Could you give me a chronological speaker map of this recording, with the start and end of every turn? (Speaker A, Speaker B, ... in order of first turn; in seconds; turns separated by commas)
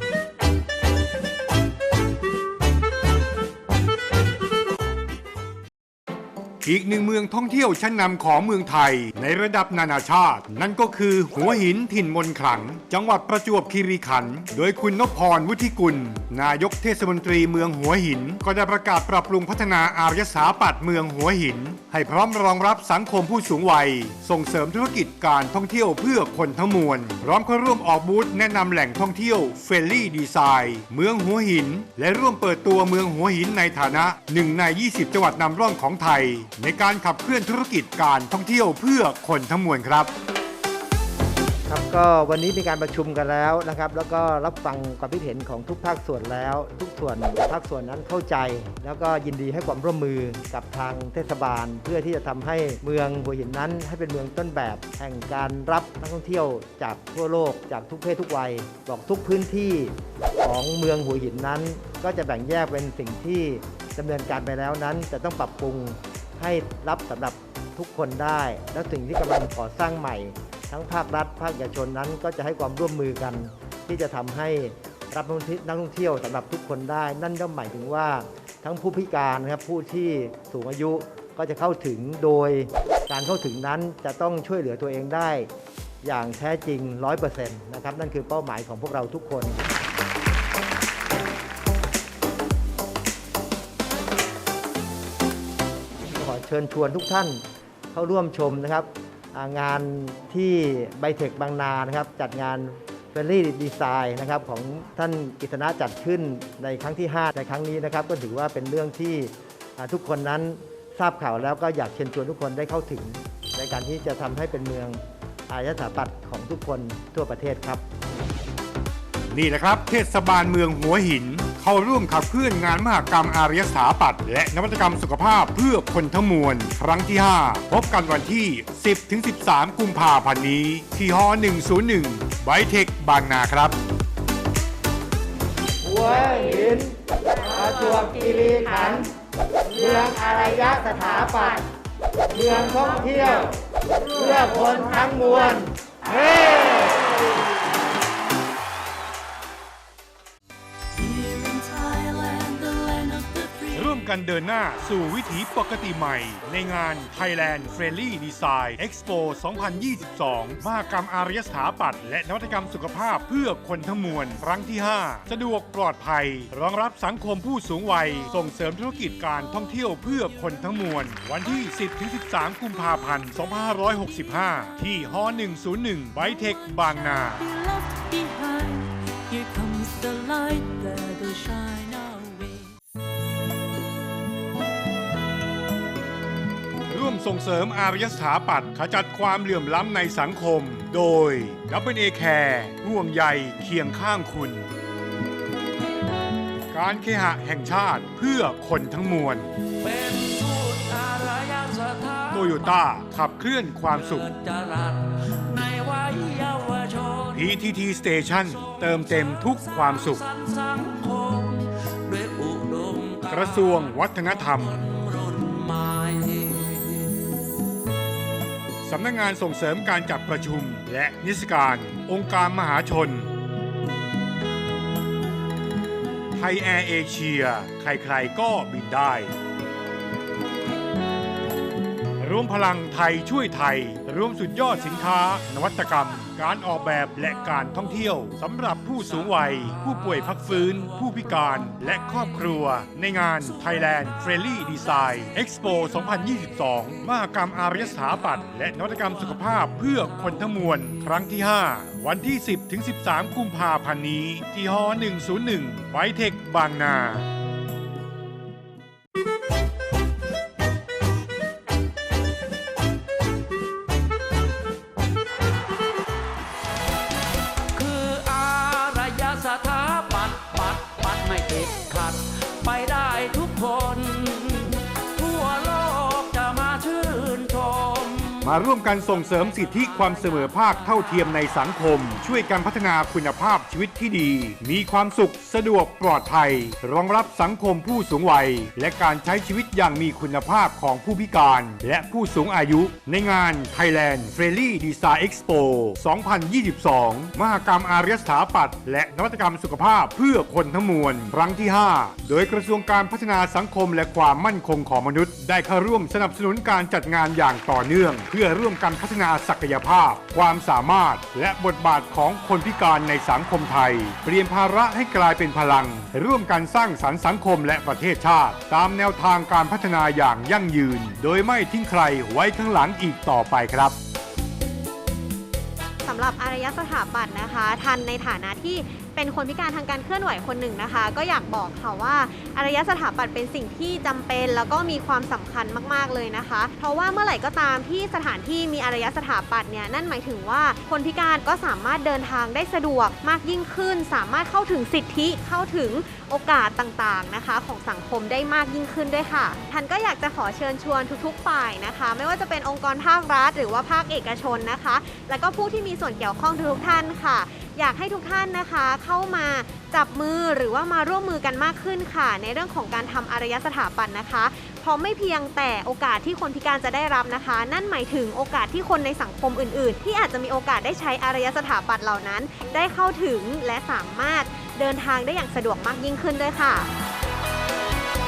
Speaker A: 6.6-40.1, Speaker B: 41.7-85.5, Speaker B: 86.0-89.6, Speaker B: 96.2-117.8, Speaker A: 119.3-133.8, Speaker B: 135.8-139.1, Speaker B: 139.7-141.7, Speaker B: 142.3-143.5, Speaker B: 144.1-147.2, Speaker C: 150.9-153.9, Speaker A: 153.8-177.4, Speaker C: 176.2-182.8, Speaker A: 186.9-194.7, Speaker A: 196.7-199.5, Speaker D: 199.8-202.8, Speaker A: 202.3-204.3, Speaker D: 203.9-207.6, Speaker A: 207.3-210.2, Speaker D: 208.3-217.2, Speaker A: 213.3-214.8, Speaker A: 218.8-223.3, Speaker A: 226.3-229.3, Speaker A: 232.2-257.2, Speaker D: 267.8-278.6, Speaker A: 278.4-323.9, Speaker D: 279.5-280.1, Speaker E: 326.0-376.9